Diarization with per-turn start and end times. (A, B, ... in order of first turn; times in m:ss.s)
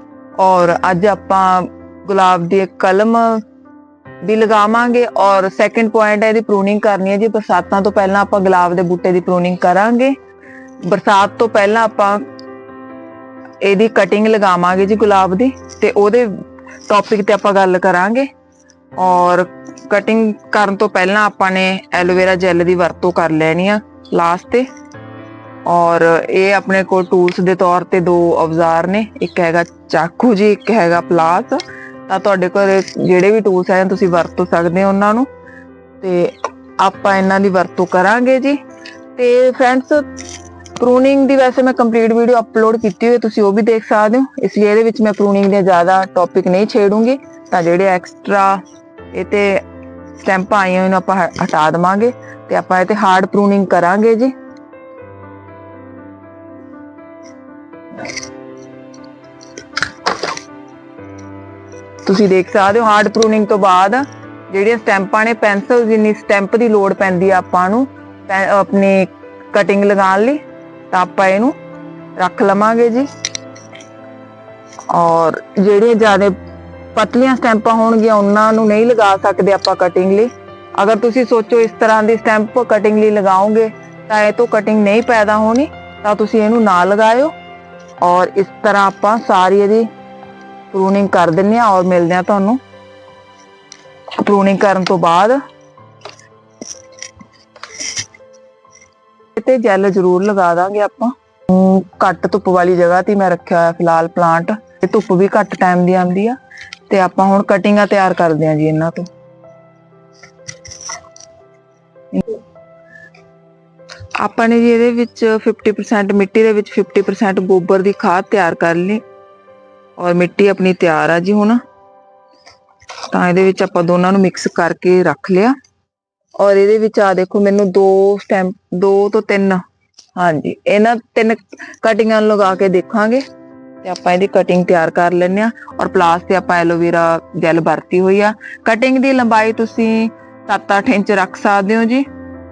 0:00.4-0:03.4 A
0:04.2-0:10.1 A
0:10.8-0:12.2 A
0:13.6-0:18.3 A
0:19.0-0:24.7 A
0:25.6-0:35.3 A
0:36.0-0:38.6 A
0:39.2-0:40.2 A
0:40.8-0:48.6 A
0:49.1-0:49.6 A
0:50.2-0:54.3 A
1:02.0-1:11.6 A
1:12.2-1:13.1 A
1:14.9-1:16.3 A
1:17.0-1:27.3 A
1:28.0-1:29.9 A
1:30.7-1:32.6 A
1:34.2-1:35.4 A
1:39.4-1:49.1 A
1:52.1-1:52.4 A
1:54.2-1:59.0 A
2:00.0-2:01.6 A
2:03.1-2:05.6 A
2:06.4-2:09.6 A
2:10.2-2:13.2 A
2:13.8-2:22.1 A